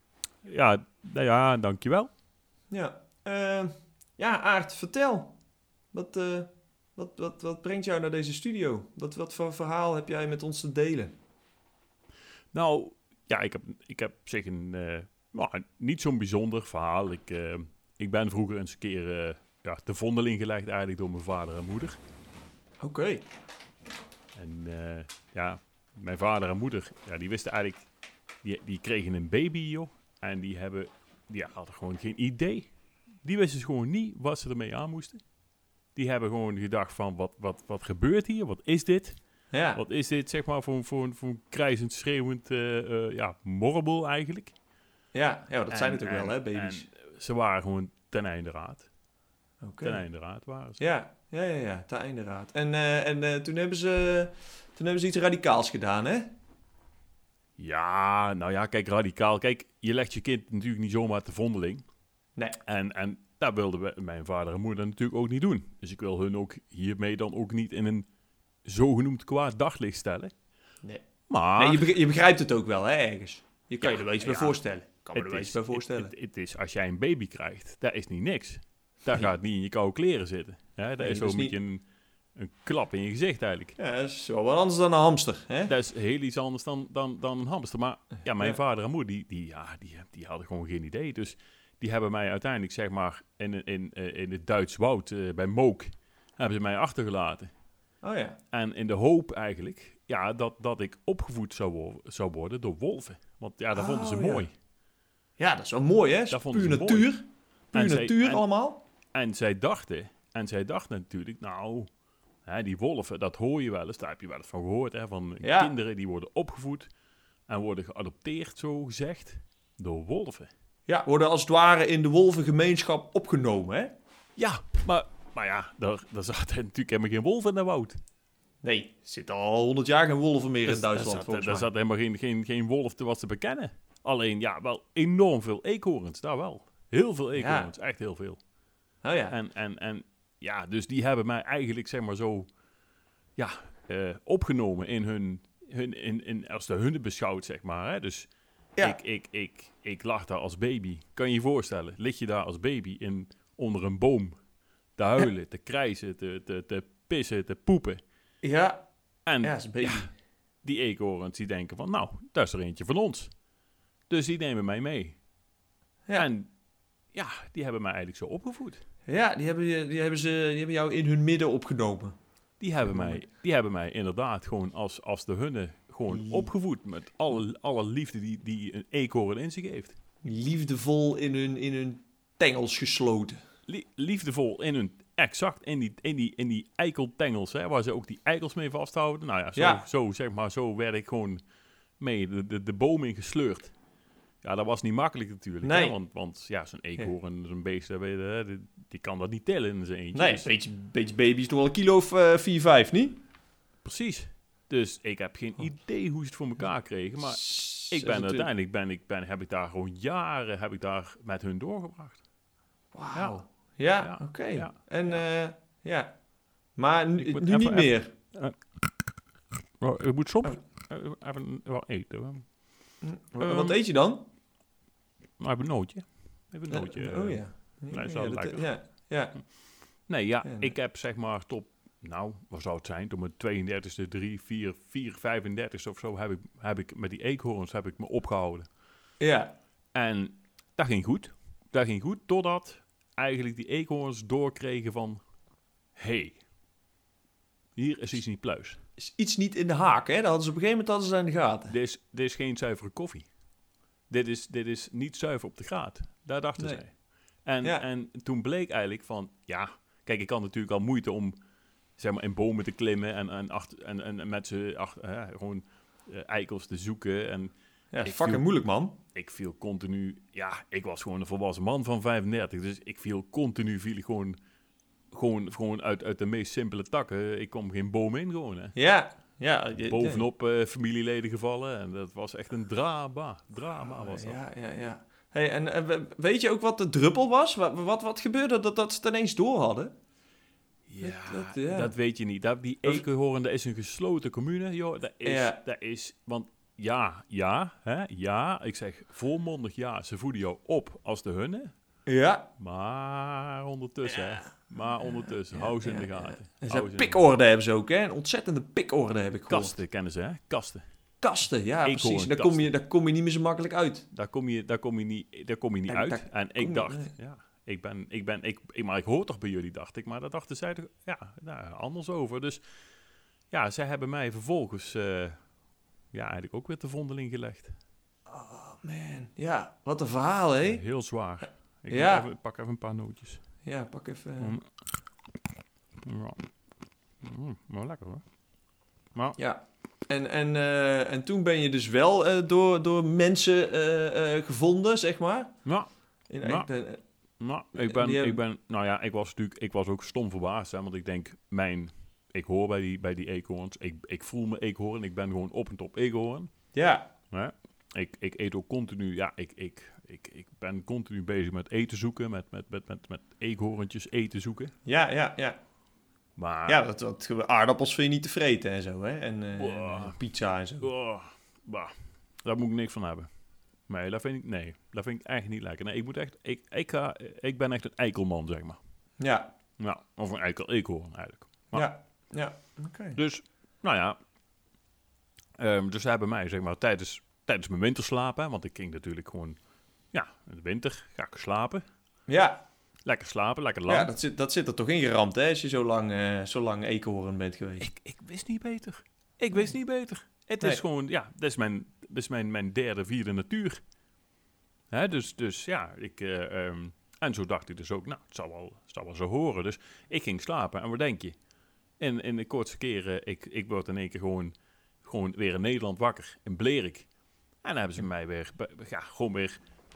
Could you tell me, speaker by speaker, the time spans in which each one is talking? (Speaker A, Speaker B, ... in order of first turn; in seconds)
Speaker A: 0.4-2.1, 12.5-22.0, 24.3-27.9, 28.4-32.7, 33.2-35.2, 35.9-39.2, 39.7-44.5, 45.7-48.9, 49.8-50.8, 57.6-61.8, 62.6-68.0, 68.6-70.3, 71.3-71.9, 73.8-81.8, 82.3-83.8, 85.7-97.5, 98.5-104.5, 106.3-107.1, 107.7-108.4, 109.1-111.9, 112.4-116.9, 117.5-120.5, 124.4-128.0, 130.7-138.4, 139.3-142.5, 143.4-148.3, 148.8-154.3, 154.9-158.0, 159.2-160.1, 160.6-163.3, 164.1-165.2, 166.2-166.5, 167.1-168.8, 172.6-179.9, 183.7-191.4, 192.0-193.7, 194.4-200.5, 203.8-212.2, 214.0-215.2, 217.2-218.6, 219.8-222.4, 223.4-223.8, 225.4-228.7, 230.1-238.7, 239.9-245.2, 245.9-246.4, 247.8-248.8, 251.7-253.3, 254.1-256.9, 257.4-261.4, 262.0-268.4, 269.1-274.4, 275.1-278.7, 279.9-284.4, 290.9-301.7, 302.6-307.2, 309.5-310.8, 311.8-312.7, 314.1-322.6, 323.5-325.4, 326.1-327.7, 330.6-333.4, 334.4-334.6, 336.0-336.4, 337.2-338.2, 345.6-345.9, 346.4-346.7, 347.4-356.5, 357.3-364.7, 366.4-366.8, 369.6-370.2, 370.8-371.9, 372.4-373.3, 373.9-378.8, 379.8-381.9, 383.1-384.2, 385.6-389.6, 390.1-391.8, 393.1-394.1, 397.8-403.8, 404.9-411.3, 412.0-417.1, 417.6-419.6
Speaker B: 2.7-5.3, 5.9-11.1, 22.8-23.2, 39.5-39.8, 45.1-46.9, 49.6-50.0, 50.8-56.3, 71.6-76.1, 81.0-81.5, 83.8-85.7, 98.0-98.4, 103.7-104.5, 105.4-108.8, 115.4-115.7, 120.9-123.9, 128.6-131.7, 137.3-137.7, 139.0-139.3, 158.4-158.8, 159.4-160.1, 169.1-172.1, 172.8-173.2, 176.1-176.5, 180.2-183.4, 189.6-189.8, 195.6-195.9, 200.1-203.2, 207.2-208.5, 212.9-216.1, 216.8-218.1, 223.0-224.2, 226.7-229.4, 230.4-230.7, 239.2-239.5, 249.0-251.7, 267.9-269.0, 278.8-280.3, 283.8-289.9, 291.0-291.9, 295.2-295.6, 302.1-302.5, 305.3-309.7, 311.2-314.1, 315.9-317.1, 328.3-330.8, 331.9-332.3, 333.6-334.6, 339.4-345.5, 346.3-347.0, 347.8-348.4, 356.7-357.1, 364.8-365.6, 366.7-370.9, 379.2-379.5, 381.7-383.2, 392.3-392.6, 393.9-397.9